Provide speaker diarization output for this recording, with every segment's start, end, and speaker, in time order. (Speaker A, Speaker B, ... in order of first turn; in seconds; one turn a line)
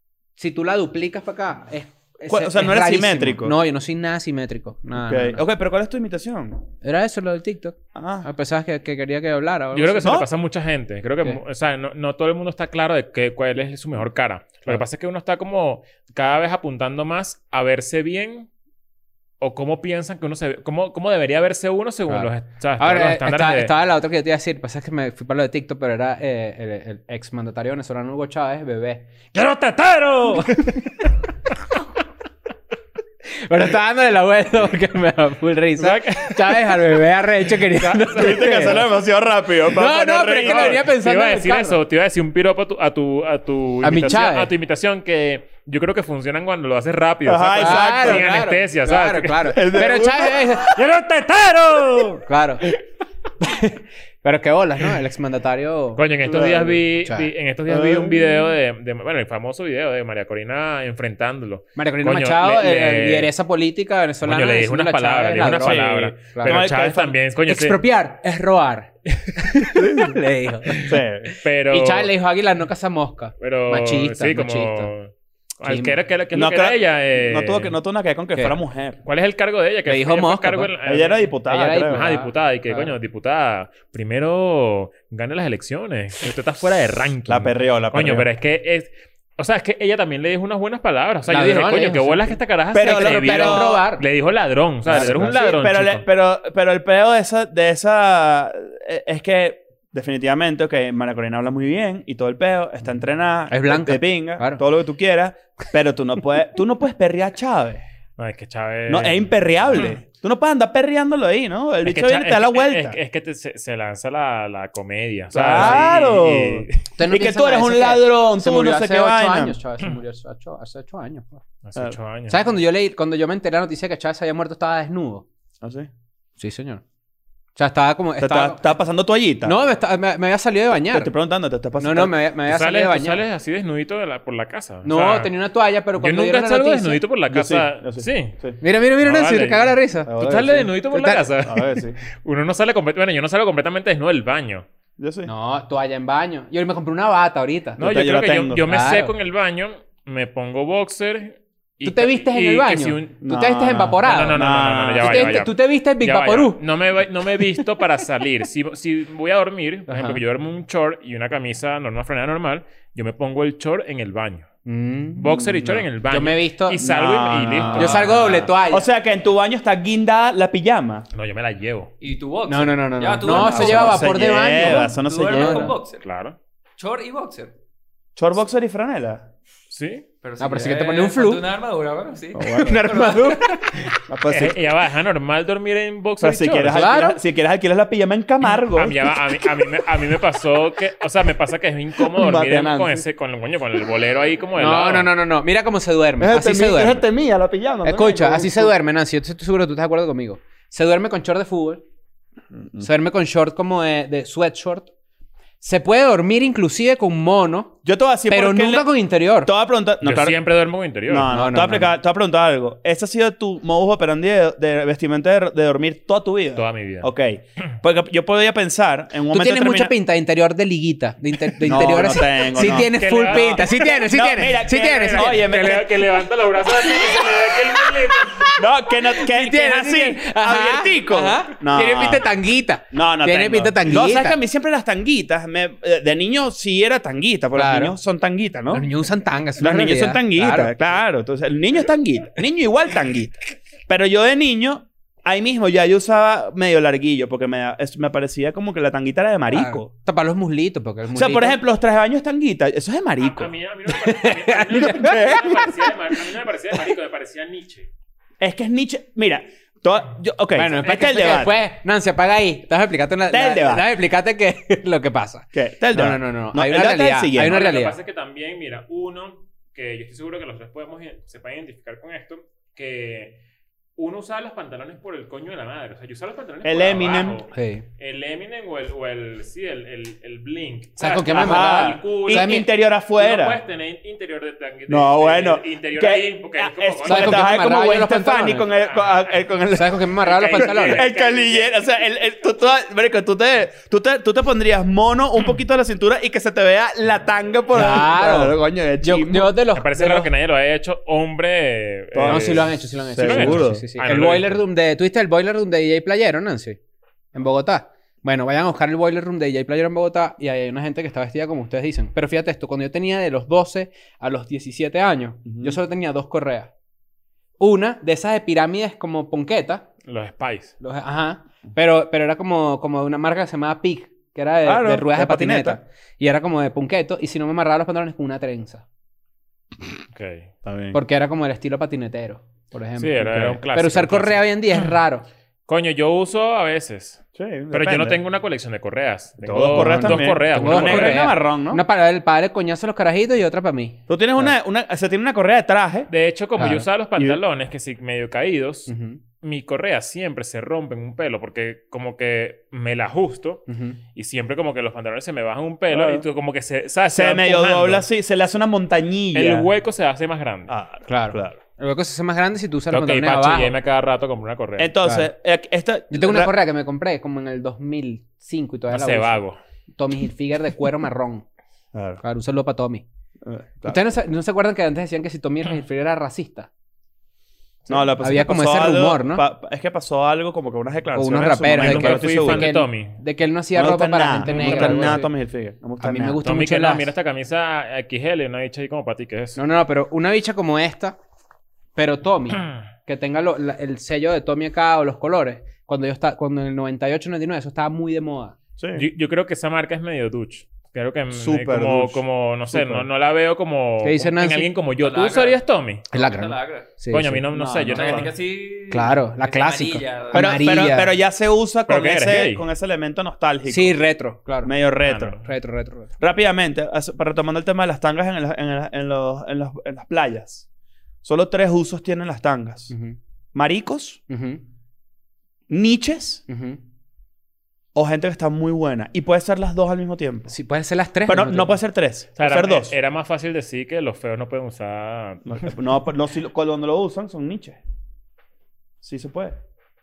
Speaker A: 0.4-5.4
Speaker B: 2.3-3.5
Speaker B: 5.0-6.6
Speaker A: 6.8-10.2
Speaker B: 7.9-8.3
Speaker C: 9.7-18.5
Speaker B: 10.0-10.2
Speaker C: 19.4-23.7
Speaker A: 22.1-29.3
Speaker C: 29.3-30.8
Speaker A: 30.2-30.9
Speaker A: 33.4-38.8
Speaker C: 35.8-36.8
Speaker C: 37.6-38.8
Speaker B: 38.1-40.9
Speaker A: 39.7-41.8
Speaker C: 40.4-49.7
Speaker A: 43.8-44.5
Speaker B: 47.2-48.3
Speaker A: 47.5-50.8
Speaker B: 49.5-50.5
Speaker C: 50.6-52.2
Speaker A: 52.2-52.6
Speaker A: 53.4-56.0
Speaker C: 56.0-63.3
Speaker B: 56.2-56.8
Speaker B: 57.7-58.5
Speaker A: 61.8-66.6
Speaker C: 64.2-67.8
Speaker B: 65.5-67.1
Speaker A: 67.5-74.9
Speaker C: 69.3-69.7
Speaker B: 69.7-70.2
Speaker B: 70.7-71.3
Speaker C: 70.8-72.1
Speaker C: 73.4-77.7
Speaker A: 75.6-76.0
Speaker B: 76.3-79.0
Speaker C: 79.0-96.0
Speaker A: 79.9-80.7
Speaker B: 80.8-82.0
Speaker A: 81.5-82.9
Speaker B: 87.3-88.3
Speaker A: 91.3-94.0
Speaker B: 92.7-93.8
Speaker B: 94.8-107.8
Speaker A: 103.5-104.6
Speaker C: 108.2-110.0
Speaker B: 108.9-113.0
Speaker C: 111.8-116.8
Speaker B: 115.3-119.6
Speaker A: 115.5-115.9
Speaker A: 117.0-121.4
Speaker C: 121.6-122.5
Speaker A: 122.3-125.2
Speaker B: 125.6-125.9
Speaker A: 126.4-126.8
Speaker A: 127.5-128.7
Speaker B: 128.2-129.5
Speaker A: 129.4-131.1
Speaker B: 130.9-132.2
Speaker A: 131.8-133.2
Speaker C: 132.5-135.3
Speaker A: 134.8-137.0
Speaker C: 136.0-138.3
Speaker B: 137.3-138.6
Speaker A: 138.6-140.1
Speaker C: 139.0-144.7
Speaker B: 140.1-140.7
Speaker A: 140.9-141.2
Speaker B: 141.4-142.0
Speaker B: 145.0-145.3
Speaker A: 145.2-147.8
Speaker B: 147.8-148.6
Speaker C: 147.8-153.1
Speaker A: 148.7-149.1
Speaker A: 151.8-154.4
Speaker B: 153.2-155.4
Speaker C: 154.0-164.4
Speaker A: 155.0-156.6
Speaker A: 159.9-160.2
Speaker A: 164.7-166.8
Speaker C: 165.2-168.5
Speaker B: 166.8-171.1
Speaker A: 167.7-168.9
Speaker C: 171.1-171.9
Speaker D: 172.0-176.0
Speaker A: 172.5-175.8
Speaker B: 173.2-175.7
Speaker C: 176.0-176.3
Speaker D: 176.8-177.5
Speaker B: 178.2-179.3
Speaker C: 179.7-180.0
Speaker D: 180.2-183.3
Speaker A: 180.4-181.4
Speaker B: 182.3-183.0
Speaker A: 182.6-183.8
Speaker C: 183.8-186.9
Speaker B: 184.1-184.6
Speaker B: 186.2-189.2
Speaker A: 186.7-187.2
Speaker C: 188.5-195.1
Speaker B: 192.0-193.0
Speaker A: 194.6-197.0
Speaker B: 196.2-198.7
Speaker A: 197.8-201.8
Speaker B: 202.5-202.9
Speaker A: 202.8-204.9
Speaker A: 205.6-207.7
Speaker B: 207.8-208.9
Speaker A: 208.3-209.5
Speaker B: 209.4-210.4
Speaker C: 210.0-211.3
Speaker B: 211.1-219.9
Speaker A: 211.3-211.9
Speaker C: 216.6-217.1
Speaker A: 219.3-225.5
Speaker B: 221.6-226.1
Speaker C: 222.5-224.0
Speaker C: 224.8-228.6
Speaker A: 227.0-234.4
Speaker B: 228.5-232.3
Speaker B: 232.9-238.8
Speaker A: 237.5-237.9
Speaker A: 238.7-240.7
Speaker B: 239.6-249.9
Speaker A: 249.5-251.6
Speaker B: 251.1-253.5
Speaker C: 253.2-257.9
Speaker A: 253.9-255.4
Speaker B: 254.8-255.5
Speaker B: 258.4-261.5
Speaker A: 260.5-267.9
Speaker B: 263.3-263.9
Speaker B: 265.5-267.6
Speaker C: 267.4-273.4
Speaker C: 274.0-287.5
Speaker B: 276.6-277.4
Speaker A: 277.5-277.8
Speaker A: 281.0-282.7
Speaker B: 281.3-283.6
Speaker B: 284.9-299.5
Speaker A: 287.0-288.7
Speaker C: 288.7-289.4
Speaker A: 289.7-291.1
Speaker C: 290.2-291.7
Speaker A: 297.7-300.3
Speaker C: 299.7-304.6
Speaker B: 302.1-303.8
Speaker A: 302.2-306.8
Speaker A: 307.3-316.7
Speaker B: 315.4-315.8
Speaker A: 317.6-319.9
Speaker C: 320.1-320.7
Speaker A: 320.8-328.8
Speaker B: 324.6-325.8
Speaker C: 330.1-330.5
Speaker B: 330.6-331.0
Speaker A: 330.9-335.2
Speaker C: 333.0-334.9
Speaker C: 335.7-341.3
Speaker B: 337.4-338.2
Speaker B: 339.4-341.8
Speaker A: 339.7-344.5
Speaker B: 344.1-346.1
Speaker C: 346.1-348.9
Speaker A: 346.6-346.9
Speaker A: 348.9-349.2
Speaker C: 349.4-358.0
Speaker A: 353.7-354.0
Speaker B: 355.9-356.2
Speaker B: 357.1-359.7
Speaker C: 359.3-360.7
Speaker B: 360.7-361.6
Speaker A: 361.1-363.7
Speaker C: 362.9-364.9
Speaker B: 364.8-366.5
Speaker A: 365.0-365.3
Speaker A: 366.1-369.4
Speaker C: 368.9-369.6
Speaker A: 369.9-371.4
Speaker B: 371.9-372.2
Speaker A: 372.2-373.0
Speaker B: 373.4-374.0
Speaker A: 373.9-376.7
Speaker B: 377.9-382.7
Speaker A: 378.2-379.4
Speaker A: 381.1-385.3
Speaker C: 381.7-383.2
Speaker B: 383.7-386.4
Speaker C: 384.4-385.2
Speaker A: 386.0-387.1
Speaker C: 386.4-389.6
Speaker A: 389.6-391.2
Speaker A: 391.9-398.6
Speaker B: 398.8-399.1
Speaker C: 398.9-406.1
Speaker B: 401.3-403.1
Speaker A: 404.0-404.7
Speaker D: 405.0-406.9
Speaker A: 406.1-407.4
Speaker C: 407.1-408.3
Speaker B: 407.5-408.3
Speaker D: 407.9-410.9
Speaker A: 408.9-411.1
Speaker B: 410.3-414.0
Speaker C: 411.9-412.6
Speaker A: 413.7-414.7
Speaker B: 414.6-415.4
Speaker C: 415.1-415.5
Speaker A: 415.4-416.1
Speaker B: 416.2-420.6
Speaker B: 421.2-422.9
Speaker A: 422.9-423.2
Speaker B: 423.5-424.2
Speaker A: 424.3-424.6
Speaker B: 425.7-426.4
Speaker A: 426.5-426.8
Speaker B: 427.9-430.5
Speaker A: 430.5-431.8
Speaker B: 431.3-432.9
Speaker C: 432.4-435.7
Speaker B: 435.4-437.8
Speaker B: 439.0-439.6